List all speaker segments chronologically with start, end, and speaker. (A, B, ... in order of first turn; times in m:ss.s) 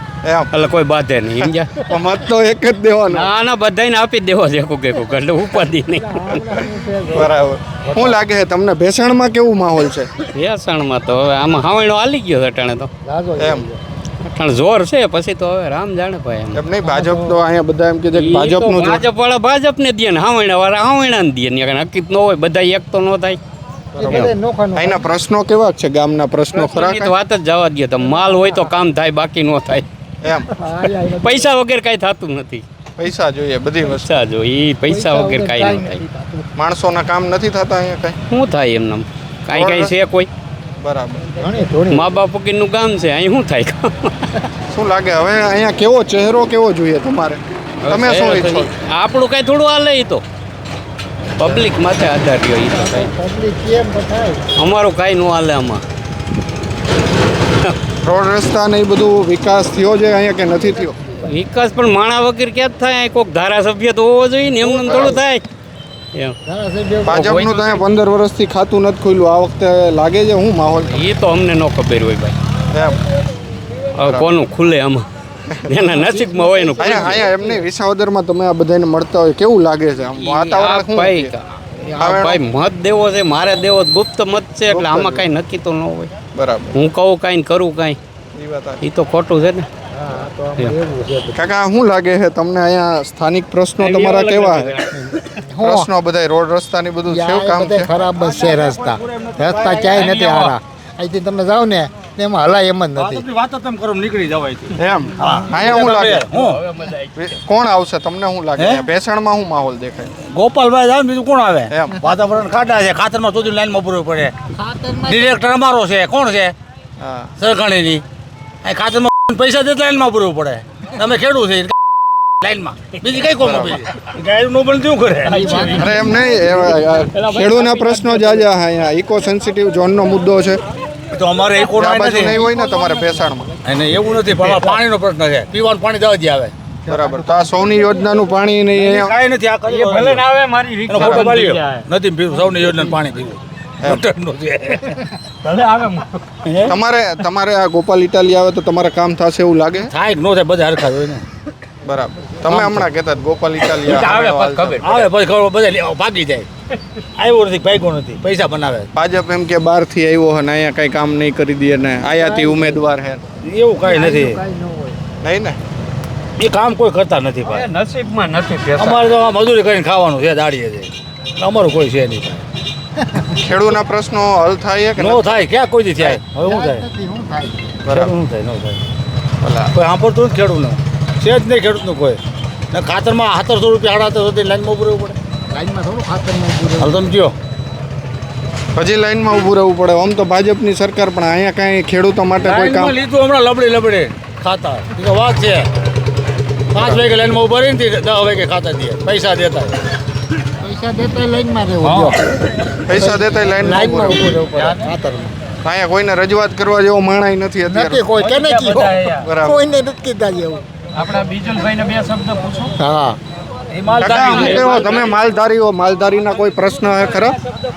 0:00.2-0:00.5 A
0:00.5-0:01.9 B
0:01.4-0:03.3 A
0:03.1-0:06.0 B
0:06.0-0:07.3 C
0:07.1-0:10.1 A
0:07.9-0:08.2 C
0:10.4-0:12.9 B
0:13.1-0:13.7 C
0:13.4-0:13.6 A
0:14.2-0:16.6 B
0:16.5-0:19.0 A
0:16.8-0:17.4 C
0:18.2-0:23.4 B
0:24.0-0:25.1 C
0:24.0-0:27.2 A
0:26.6-0:29.8 B
0:28.0-0:28.8 C
0:30.2-0:30.5 A
0:30.5-0:31.6 C
0:31.2-0:32.6 B
0:33.0-0:34.2 A
0:34.0-0:36.0 B
0:34.9-0:36.5 C
0:36.6-0:38.2 A
0:38.3-0:40.3 B
0:39.5-0:39.9 A
0:40.8-0:41.2 A
0:41.4-0:42.2 C
0:41.9-0:44.1 B
0:44.7-0:48.7 A
0:47.8-0:50.2 B
0:51.4-0:53.1 B
0:51.4-0:51.8 C
0:52.6-0:54.4 C
0:54.6-0:55.8 B
0:58.0-1:01.0 A
1:01.0-1:01.3 C
1:01.3-1:05.4 B
1:04.7-1:05.2 C
1:04.8-1:05.2 A
1:06.5-1:07.3 C
1:07.1-1:11.1 A
1:07.1-1:07.8 B
1:10.9-1:12.4 B
1:14.0-1:15.0 B
1:14.0-1:14.4 A
1:15.6-1:16.1 A
1:15.7-1:17.2 B
1:16.1-1:17.3 C
1:16.8-1:21.3 A
1:20.2-1:26.1 B
1:22.0-1:22.4 A
1:24.7-1:25.3 A
1:26.3-1:26.8 A
1:26.7-1:28.0 B
1:28.4-1:28.8 A
1:28.8-1:29.7 B
1:30.0-1:31.4 C
1:31.4-1:34.8 A
1:33.8-1:34.7 B
1:35.0-1:35.9 C
1:35.6-1:37.9 A
1:37.1-1:43.2 C
1:39.5-1:40.6 D
1:43.0-1:46.7 D
1:44.8-1:46.3 A
1:47.2-1:50.1 A
1:48.6-1:48.9 D
1:50.3-1:54.4 D
1:51.7-1:52.0 A
1:54.6-1:55.4 C
1:55.1-1:56.6 D
1:57.0-1:57.3 A
1:57.4-1:58.0 D
1:58.6-2:01.7 D
2:02.4-2:05.9 D
2:03.4-2:03.9 A
2:05.3-2:06.2 C
2:05.7-2:10.6 A
2:11.1-2:12.4 D
2:11.7-2:13.5 A
2:13.6-2:16.5 D
2:16.9-2:19.2 A
2:18.8-2:20.3 D
2:19.7-2:21.9 E
2:20.3-2:21.2 B
2:20.9-2:21.3 A
2:21.2-2:25.0 D
2:26.6-2:29.9 A
2:29.9-2:31.2 D
2:31.9-2:35.0 A
2:33.9-2:34.2 D
2:34.2-2:34.7 B
2:34.8-2:36.5 D
2:37.2-2:38.9 D
2:39.0-2:43.2 A
2:42.0-2:42.9 C
2:43.4-2:44.4 D
2:43.8-2:45.0 C
2:45.2-2:45.6 A
2:46.4-2:47.6 D
2:47.6-2:48.7 B
2:48.8-2:52.4 D
2:48.8-2:49.1 E
2:53.0-2:53.3 C
2:53.4-2:55.4 A
2:55.0-2:56.9 D
2:56.4-2:57.8 C
2:57.9-2:58.1 A
2:58.0-2:58.8 D
2:59.4-2:59.7 A
2:59.7-3:05.2 D
3:05.5-3:07.1 C
3:06.8-3:07.4 D
3:08.8-3:13.0 A
3:12.4-3:15.7 D
3:16.7-3:19.8 D
3:20.6-3:22.3 C
3:21.9-3:22.2 D
3:22.9-3:24.3 A
3:22.9-3:25.3 C
3:25.6-3:28.0 A
3:27.7-3:30.6 C
3:28.5-3:28.8 E
3:29.2-3:29.6 A
3:31.0-3:32.0 E
3:31.2-3:32.7 D
3:32.8-3:33.2 C
3:33.8-3:34.8 D
3:34.0-3:37.4 A